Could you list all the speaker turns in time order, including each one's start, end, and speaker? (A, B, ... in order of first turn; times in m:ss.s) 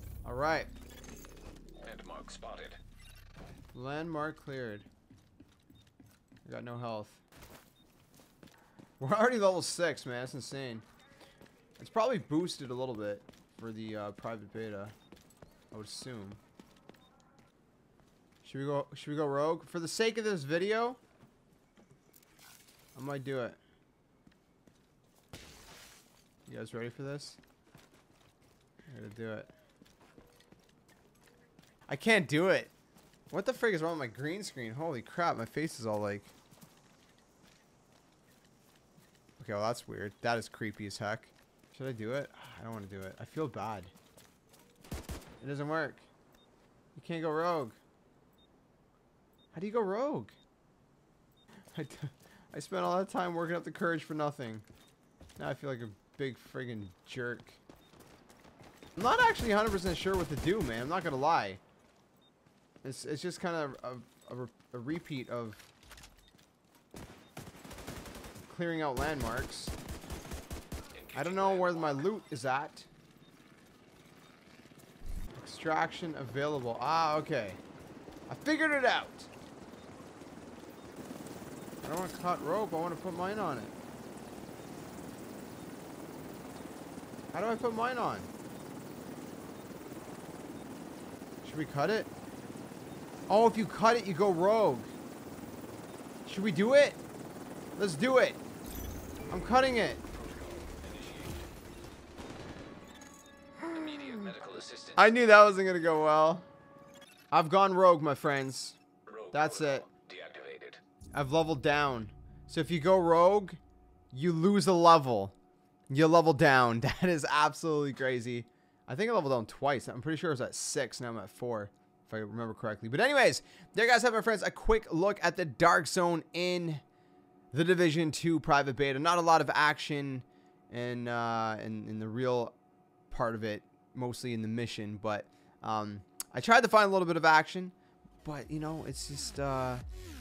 0:00.2-0:00.7 A
0:01.8-0:02.8 B
0:03.7-0:04.9 A
0:06.4-0:07.2 A
0:09.0-0:10.9 A
0:11.8-0:15.0 A
0:15.7-0:16.4 A
0:18.4-0:21.0 A
0:22.9-0:23.6 A
0:26.4-0:27.4 A
0:28.9-0:29.5 A
0:31.9-0:32.7 A
0:33.3-0:36.3 A
0:39.4-0:43.9 A
0:45.4-0:46.1 A
0:46.9-0:47.8 A
0:49.5-0:50.4 A
0:51.7-0:54.6 A
0:55.4-0:57.6 A
0:59.0-1:01.6 A
1:02.8-1:05.7 A
1:08.4-1:09.7 A
1:10.9-1:12.2 B
1:11.1-1:12.9 A
1:15.4-1:17.6 A
1:18.3-1:19.3 A
1:21.8-1:23.7 A
1:27.3-1:28.3 A
1:31.4-1:32.1 A
1:33.3-1:34.9 A
1:36.3-1:37.0 A
1:37.8-1:38.4 A
1:39.3-1:40.0 A
1:40.1-1:41.5 B
1:43.6-1:44.4 A
1:43.7-1:45.1 B
1:45.0-1:46.5 A
1:47.3-1:48.8 A
1:49.1-1:50.8 B
1:49.3-1:49.9 A
1:51.1-1:53.6 A
1:54.1-1:55.4 A
1:55.9-2:06.8 A
2:07.5-2:12.6 A
2:13.1-2:19.8 A